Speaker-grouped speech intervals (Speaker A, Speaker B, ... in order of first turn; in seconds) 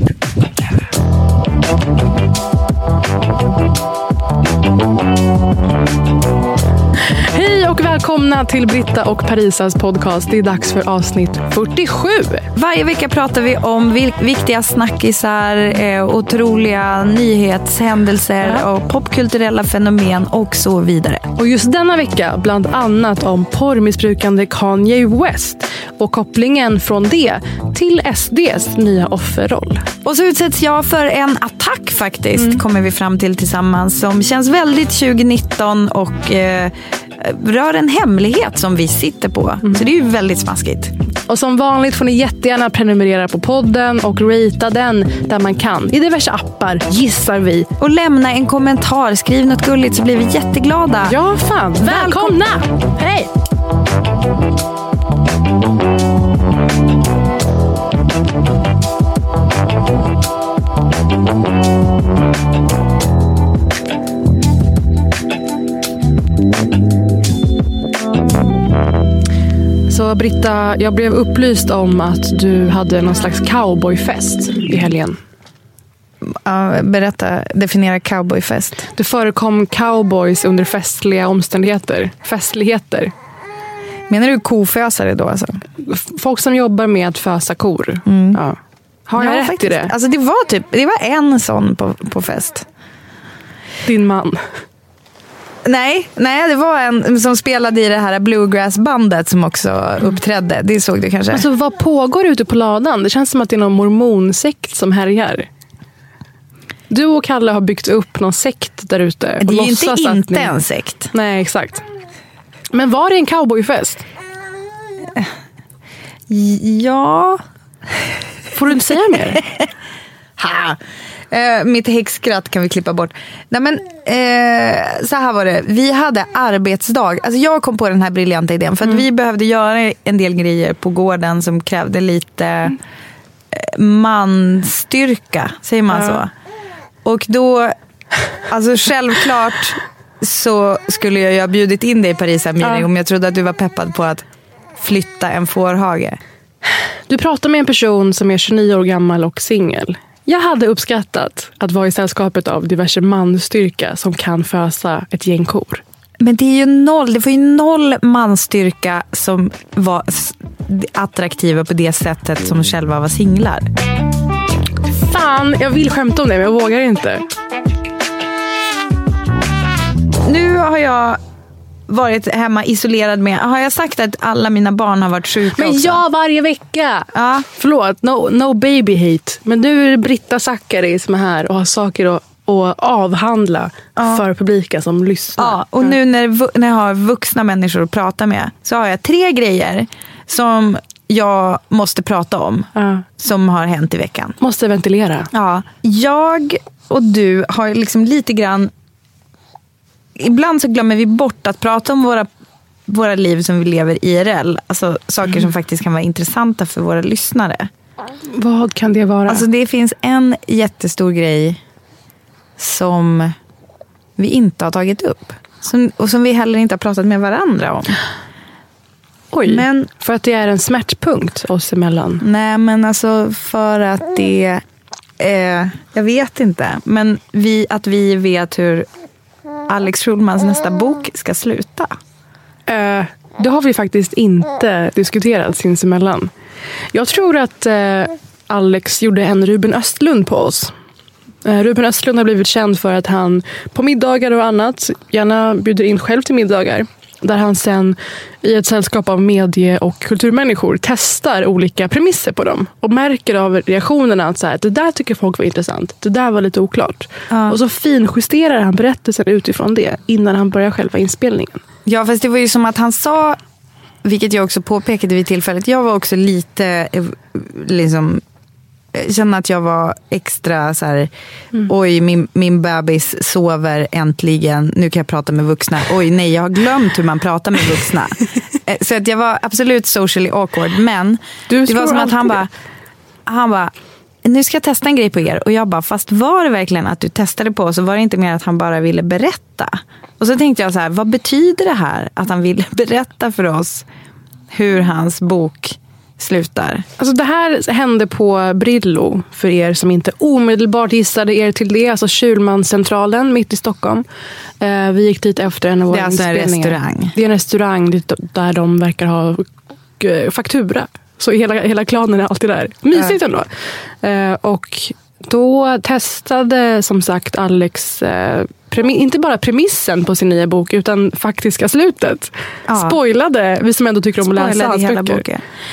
Speaker A: 7.3-12.5, 21.4-29.8, 39.6-39.9, 41.3-47.7, 51.1-53.3, 69.9-75.2, 78.9-83.1, 85.8-88.6, 89.1-89.9, 93.8-94.4, 101.3-105.5, 106.9-110.5, 111.1-111.8, 112.7-114.0, 118.5-119.4, 135.9-136.2, 142.6-142.9, 147.1-155.8, 165.0-167.2, 175.6-185.9, 192.8-193.1, 194.4-195.3, 208.3-209.4, 219.3-222.2, 232.7-236.3, 236.9-240.7, 241.4-261.6, 281.5-282.4, 297.0-304.0, 304.6-309.4, 310.0-313.5, 314.0-325.2
Speaker B: 12.5-21.2, 30.0-40.9, 47.8-51.1, 51.8-52.4, 76.2-78.8, 84.1-85.6, 88.0-88.4, 89.2-92.6, 95.6-101.4, 109.4-111.1, 116.3-117.4, 118.7-119.6, 120.4-120.8, 121.3-132.7, 133.5-136.3, 137.0-137.7, 138.5-144.2, 144.8-146.2, 156.2-163.7, 170.2-171.2, 171.9-176.0, 177.1-177.4, 183.9-184.2, 185.4-194.3, 195.3-198.7, 200.2-202.3, 202.9-207.7, 209.3-211.6, 212.6-213.3, 214.2-217.9, 219.5-219.9, 222.2-224.6, 225.2-228.9, 229.7-231.9, 257.3-257.6, 261.9-263.4, 264.0-268.2, 268.9-271.1, 271.7-282.5, 283.2-283.7, 284.2-293.8, 294.5-296.9, 305.9-307.1, 322.7-323.0, 324.2-325.4